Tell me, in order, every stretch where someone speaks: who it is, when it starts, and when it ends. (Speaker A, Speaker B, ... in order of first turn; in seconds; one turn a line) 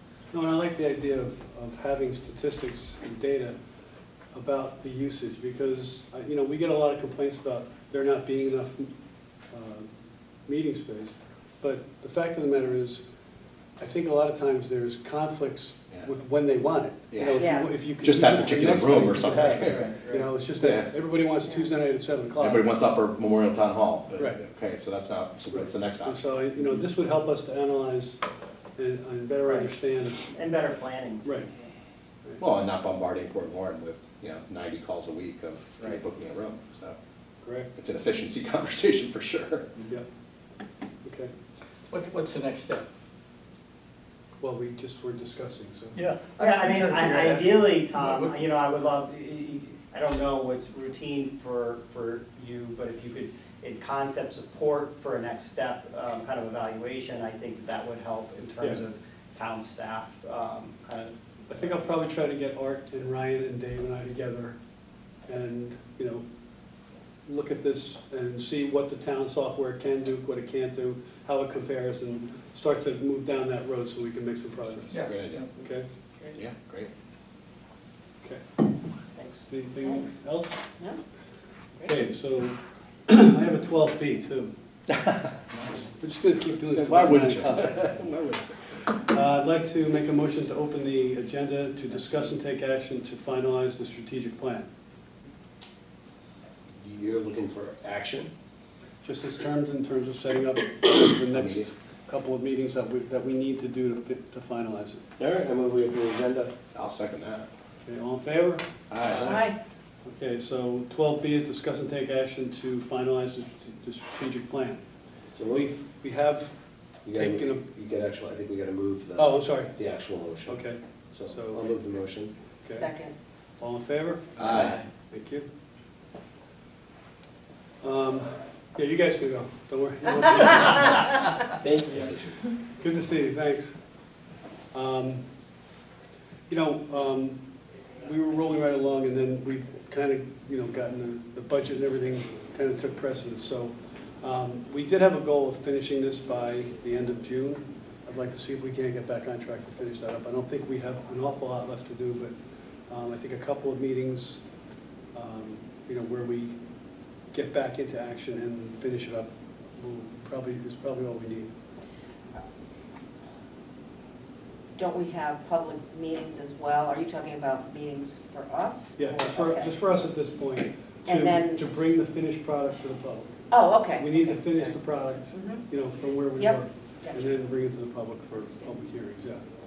Speaker A: 0.3-3.6
Speaker A: 4.3-8.9
Speaker A: 9.5-9.9
Speaker A: 10.4-13.0
Speaker A: 13.8-22.7
Speaker B: 17.1-19.9
Speaker C: 17.4-17.7
Speaker D: 19.3-20.3
Speaker E: 19.6-20.0
Speaker B: 20.6-20.9
Speaker B: 22.4-26.2
Speaker A: 25.5-28.2
Speaker A: 28.8-30.3
Speaker D: 29.4-29.7
Speaker D: 30.2-31.3
Speaker A: 31.2-31.5
Speaker B: 32.4-37.0
Speaker A: 37.4-37.7
Speaker B: 37.8-39.7
Speaker A: 41.0-41.3
Speaker E: 41.9-42.9
Speaker A: 44.4-46.0
Speaker E: 45.9-48.4
Speaker D: 46.4-61.8
Speaker A: 61.5-64.5
Speaker A: 65.3-66.2
Speaker A: 67.2-75.9
Speaker E: 74.9-75.5
Speaker B: 74.9-75.5
Speaker B: 76.3-76.9
Speaker A: 78.2-78.5
Speaker D: 79.2-79.4
Speaker A: 79.5-80.6
Speaker C: 79.8-80.2
Speaker A: 81.8-82.6
Speaker A: 83.1-84.5
Speaker B: 85.0-85.8
Speaker A: 86.0-88.0
Speaker B: 86.7-88.5
Speaker A: 89.0-94.7
Speaker F: 96.8-98.3
Speaker A: 99.0-105.0
Speaker B: 101.3-101.7
Speaker F: 105.2-106.5
Speaker B: 106.7-107.5
Speaker A: 107.8-108.6
Speaker B: 108.9-109.4
Speaker C: 109.1-109.6
Speaker A: 110.0-114.8
Speaker F: 115.3-115.7
Speaker A: 115.5-116.5
Speaker F: 117.0-122.3
Speaker A: 117.1-117.6
Speaker A: 119.2-119.7
Speaker A: 120.5-121.7
Speaker A: 122.6-122.9
Speaker C: 122.7-123.1
Speaker A: 123.6-125.5
Speaker B: 124.4-124.8
Speaker A: 127.8-131.2
Speaker B: 131.9-132.2
Speaker A: 132.7-133.8
Speaker A: 134.7-135.2
Speaker A: 136.5-137.4
Speaker A: 137.9-152.3
Speaker A: 152.9-154.4
Speaker A: 155.1-156.6
Speaker A: 157.3-161.5
Speaker C: 164.8-169.7
Speaker A: 168.9-173.3
Speaker C: 171.1-171.6
Speaker C: 173.5-174.8
Speaker A: 173.9-179.4
Speaker C: 175.3-175.6
Speaker C: 176.4-177.2